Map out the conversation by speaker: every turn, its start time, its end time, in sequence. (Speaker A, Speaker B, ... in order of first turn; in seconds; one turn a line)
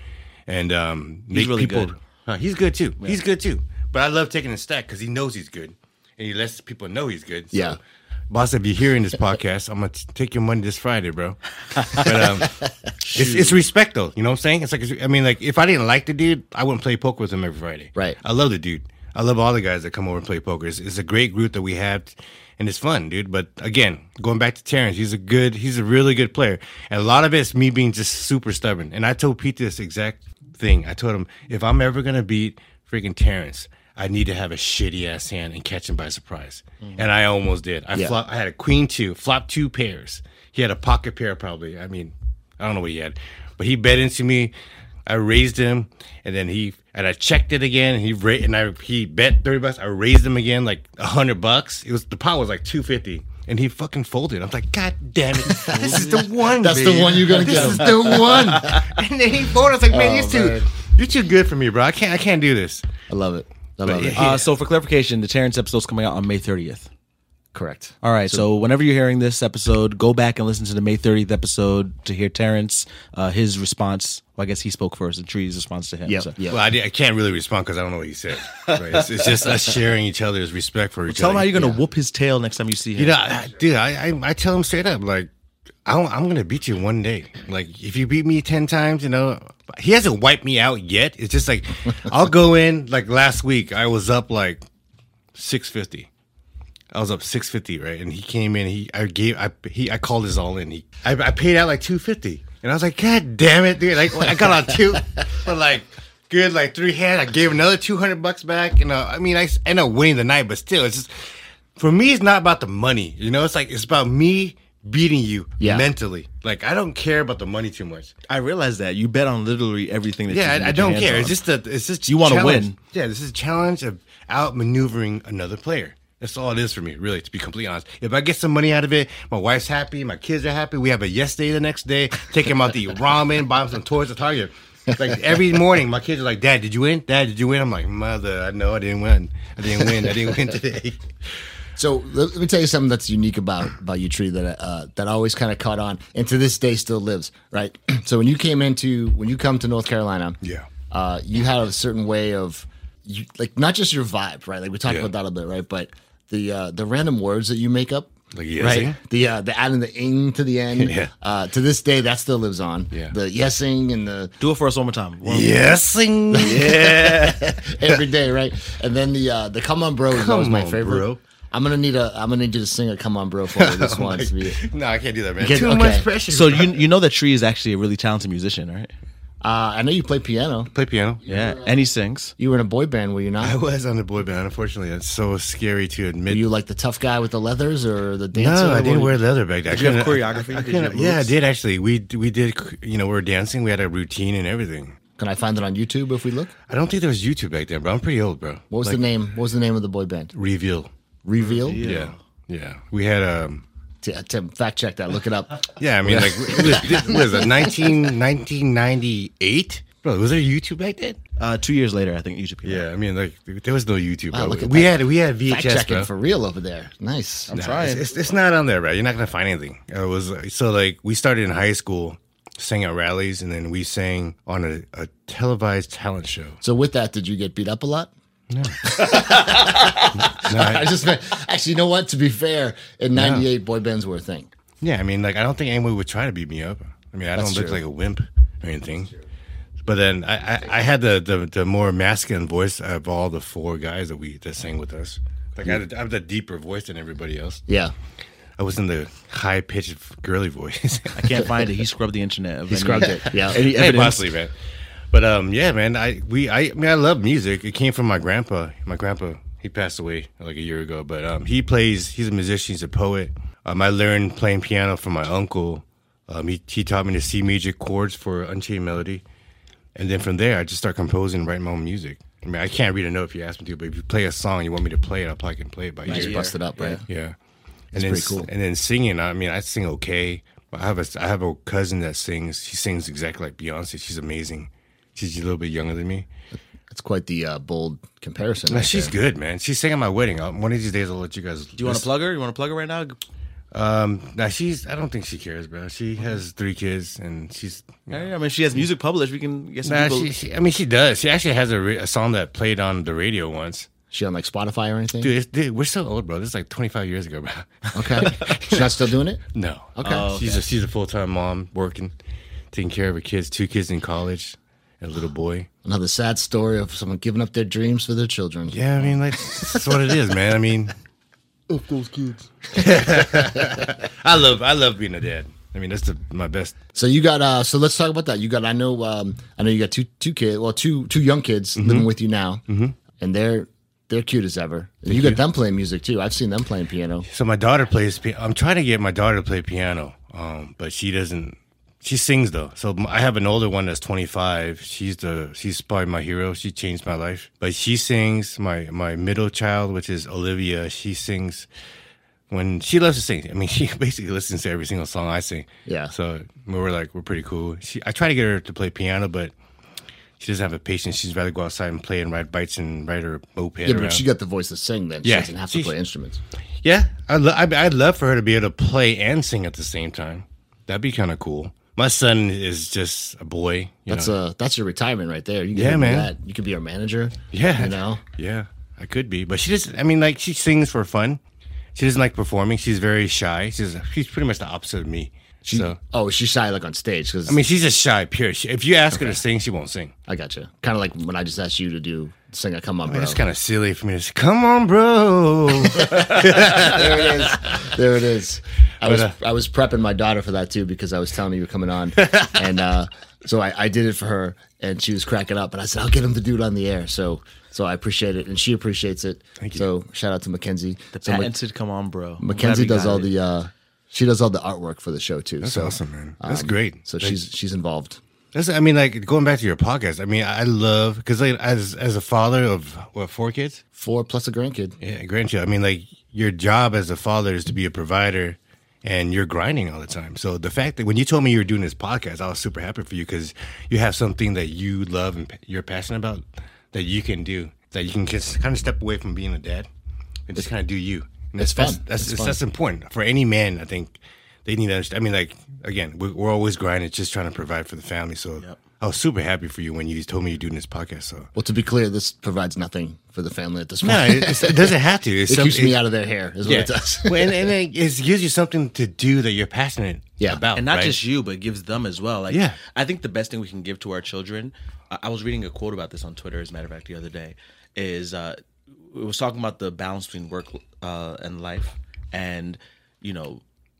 Speaker A: 0.5-44.5
Speaker B: 1.3-1.9
Speaker C: 7.5-7.8
Speaker B: 11.8-12.1
Speaker B: 13.0-13.6
Speaker A: 45.0-62.8
Speaker C: 55.5-58.8
Speaker B: 55.7-58.7
Speaker C: 59.9-60.7
Speaker C: 63.1-64.3
Speaker A: 63.8-64.5
Speaker B: 64.2-66.9
Speaker C: 67.5-68.4
Speaker B: 68.0-76.3
Speaker C: 76.0-76.6
Speaker A: 76.5-81.5
Speaker B: 78.5-79.4
Speaker B: 81.1-83.2
Speaker A: 83.0-85.3
Speaker A: 85.8-94.6
Speaker A: 95.3-96.1
Speaker A: 96.9-118.1
Speaker C: 115.6-115.9
Speaker B: 118.3-121.3
Speaker A: 120.3-141.0
Speaker B: 122.1-122.8
Speaker C: 134.9-135.2
Speaker C: 141.8-150.4
Speaker C: 150.9-164.3
Speaker A: 158.3-159.0
Speaker A: 160.8-161.1
Speaker B: 164.4-165.7
Speaker A: 165.2-168.0
Speaker C: 166.3-174.6
Speaker B: 166.4-167.4
Speaker A: 170.1-171.2
Speaker A: 173.5-176.8
Speaker C: 175.4-176.1
Speaker B: 176.3-178.9
Speaker C: 179.4-180.7
Speaker A: 180.7-181.2
Speaker B: 181.2-182.3
Speaker C: 181.3-181.6
Speaker C: 182.4-183.6
Speaker A: 183.4-186.4
Speaker C: 186.3-189.2
Speaker A: 188.3-195.0
Speaker B: 189.7-191.3
Speaker C: 195.2-196.5
Speaker A: 196.7-199.0
Speaker C: 198.7-200.3
Speaker A: 200.3-200.9
Speaker C: 201.2-201.8
Speaker B: 201.4-202.2
Speaker A: 201.8-203.6
Speaker C: 204.0-208.0
Speaker A: 205.7-211.2
Speaker B: 211.4-212.8
Speaker A: 212.6-216.1
Speaker C: 214.3-217.5
Speaker B: 217.5-218.0
Speaker A: 217.5-226.6
Speaker C: 226.6-228.1
Speaker A: 228.5-228.9
Speaker C: 228.8-234.5
Speaker A: 230.1-230.9
Speaker A: 233.1-233.5
Speaker A: 234.8-239.1
Speaker C: 237.3-237.8
Speaker A: 239.8-247.6
Speaker C: 247.7-247.9
Speaker A: 248.6-251.4
Speaker B: 251.1-254.2
Speaker C: 252.7-253.6
Speaker A: 253.3-254.5
Speaker A: 255.1-269.2
Speaker A: 269.9-276.4
Speaker B: 276.1-277.0
Speaker C: 276.1-277.0
Speaker A: 277.1-277.4
Speaker C: 277.9-278.5
Speaker A: 277.9-286.3
Speaker C: 286.9-289.1
Speaker A: 288.7-292.0
Speaker B: 291.8-293.2
Speaker A: 293.7-298.3
Speaker B: 298.1-300.3
Speaker A: 299.8-303.9
Speaker C: 304.1-305.3
Speaker A: 305.2-309.0
Speaker C: 307.9-309.4
Speaker A: 309.5-312.1
Speaker C: 309.9-310.3
Speaker B: 310.0-310.6
Speaker A: 312.7-315.7
Speaker C: 315.8-319.1
Speaker A: 318.7-320.9
Speaker C: 321.7-323.9
Speaker A: 322.7-326.8
Speaker C: 326.9-332.6
Speaker A: 331.8-332.1
Speaker A: 332.7-333.0
Speaker C: 333.2-337.2
Speaker A: 335.1-335.4
Speaker A: 337.3-351.7
Speaker A: 352.5-359.5
Speaker C: 355.9-356.1
Speaker A: 360.4-364.2
Speaker C: 363.8-366.4
Speaker A: 365.2-365.9
Speaker A: 366.8-374.3
Speaker C: 374.1-378.2
Speaker A: 375.7-376.3
Speaker A: 377.5-381.4
Speaker A: 381.9-386.0
Speaker C: 385.6-387.6
Speaker A: 387.4-390.1
Speaker C: 390.3-393.4
Speaker A: 393.1-397.8
Speaker C: 395.8-411.5
Speaker A: 399.0-399.3
Speaker A: 402.2-402.6
Speaker A: 409.6-409.9
Speaker B: 411.1-413.3
Speaker C: 412.4-418.2
Speaker A: 415.6-417.4
Speaker A: 418.5-423.8
Speaker C: 423.9-424.9
Speaker A: 425.0-439.9
Speaker A: 440.5-451.5
Speaker C: 441.6-442.6
Speaker C: 451.6-454.9
Speaker A: 454.0-456.0
Speaker C: 455.5-457.7
Speaker A: 456.6-461.2
Speaker B: 460.7-468.6
Speaker A: 462.5-462.8
Speaker B: 469.1-473.6